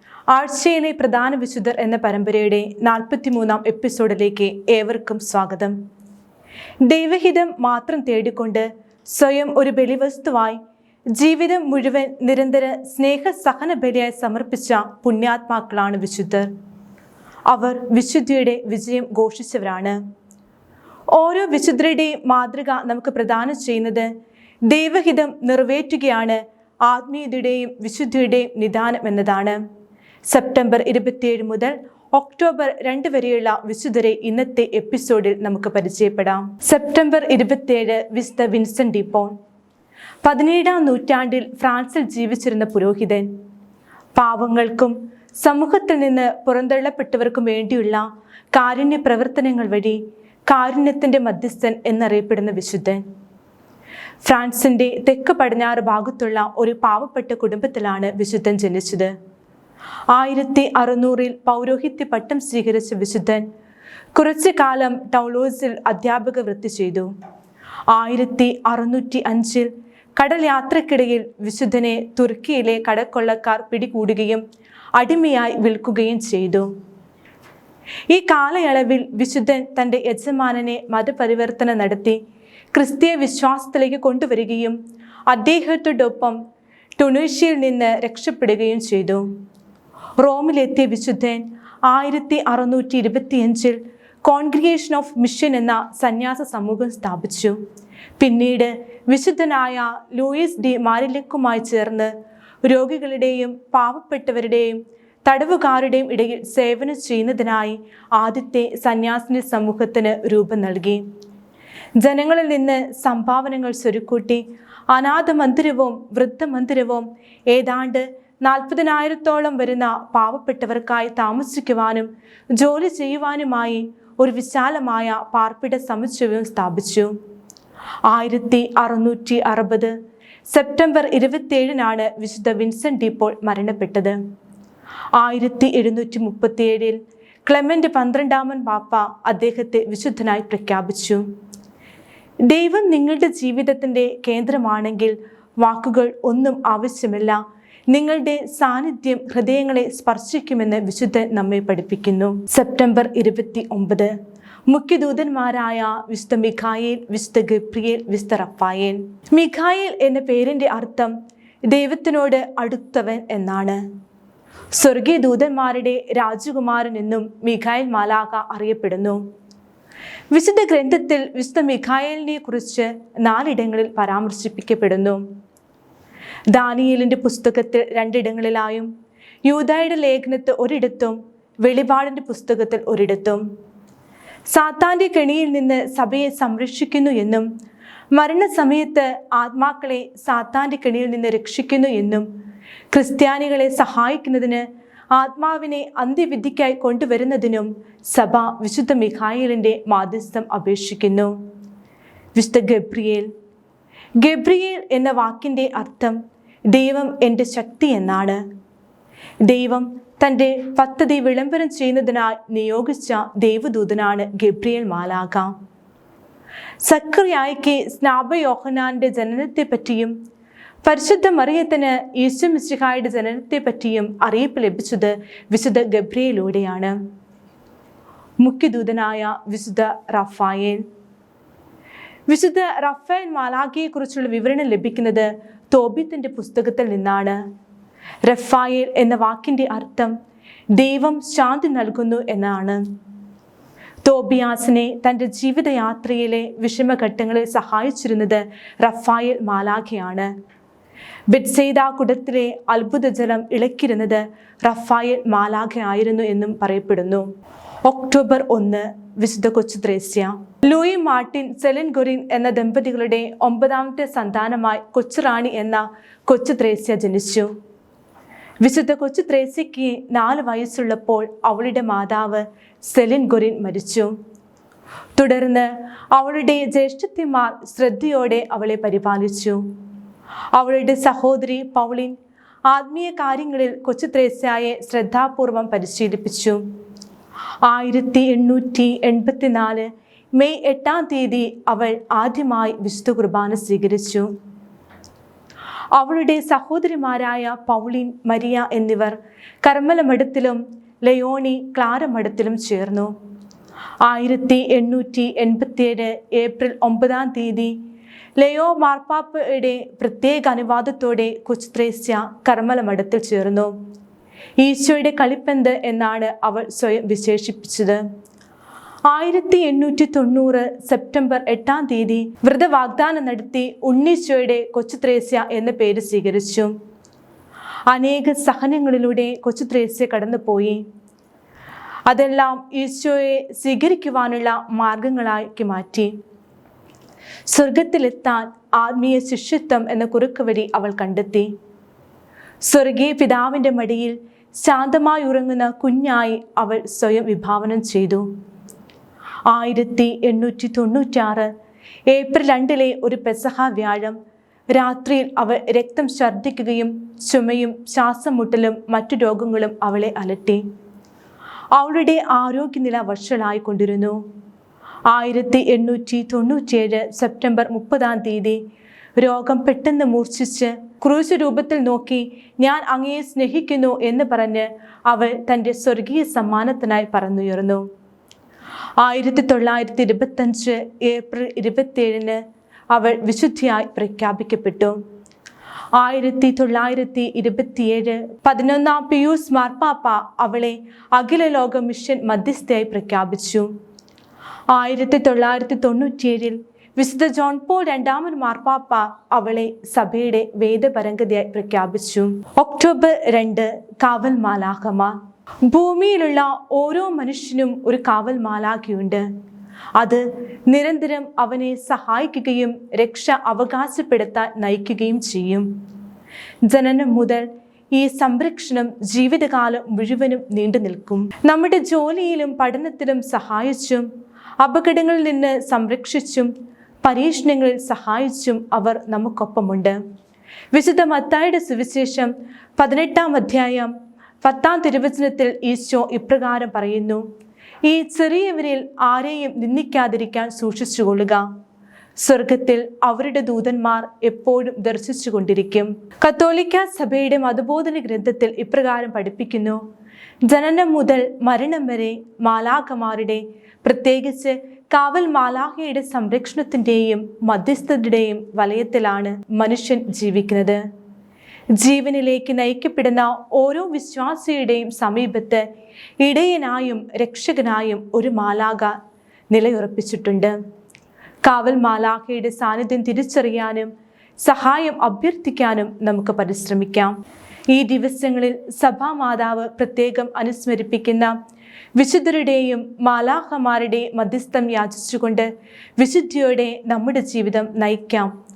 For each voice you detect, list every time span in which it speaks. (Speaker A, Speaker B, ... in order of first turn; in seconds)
Speaker A: 0.3-5.8, 6.8-10.6, 11.1-16.5, 17.5-20.0, 21.1-24.1, 24.6-29.6, 30.2-39.3, 40.2-43.3, 44.1-53.0, 54.2-59.1, 60.1-63.4, 64.2-67.1, 67.9-74.4, 75.0-76.7, 78.1-82.2, 82.7-86.4, 87.0-89.3, 90.2-97.6, 98.2-102.1, 102.6-111.0, 112.0-127.1, 128.1-129.9, 130.5-134.2, 135.2-141.2, 142.4-154.1, 154.7-161.1, 161.7-163.8, 164.7-169.2, 170.3-175.2, 176.5-178.9, 179.4-183.4, 184.5-187.5, 188.1-192.3, 192.9-201.3, 202.3-203.3, 204.2-206.2, 206.7-208.4, 209.4-215.5, 216.8-220.1, 220.8-227.0, 228.4-230.8, 232.3-237.4, 238.2-240.1, 240.7-242.8, 244.0-250.3, 251.3-257.2, 257.8-267.5, 268.6-274.1, 275.1-279.6, 280.5-282.1, 282.7-286.6, 287.6-294.3, 295.9-303.1, 304.0-307.8, 308.4-313.7, 314.6-318.0, 319.1-326.7, 327.9-330.8, 332.1-336.1, 337.5-341.5, 342.6-348.2, 349.5-351.5, 352.1-354.2, 354.7-360.6, 361.7-364.2, 365.1-368.6, 369.2-377.8, 379.0-382.4, 382.9-385.0, 385.9-393.7, 394.7-409.2, 410.0-415.7, 416.6-424.1, 424.6-426.5, 427.0-430.0, 430.7-433.9, 434.4-437.2, 437.9-441.4, 442.2-449.8, 450.4-460.8, 461.8-465.6, 466.2-468.9, 469.5-470.6, 471.4-473.9, 474.4-477.1, 477.7-481.3, 482.0-488.3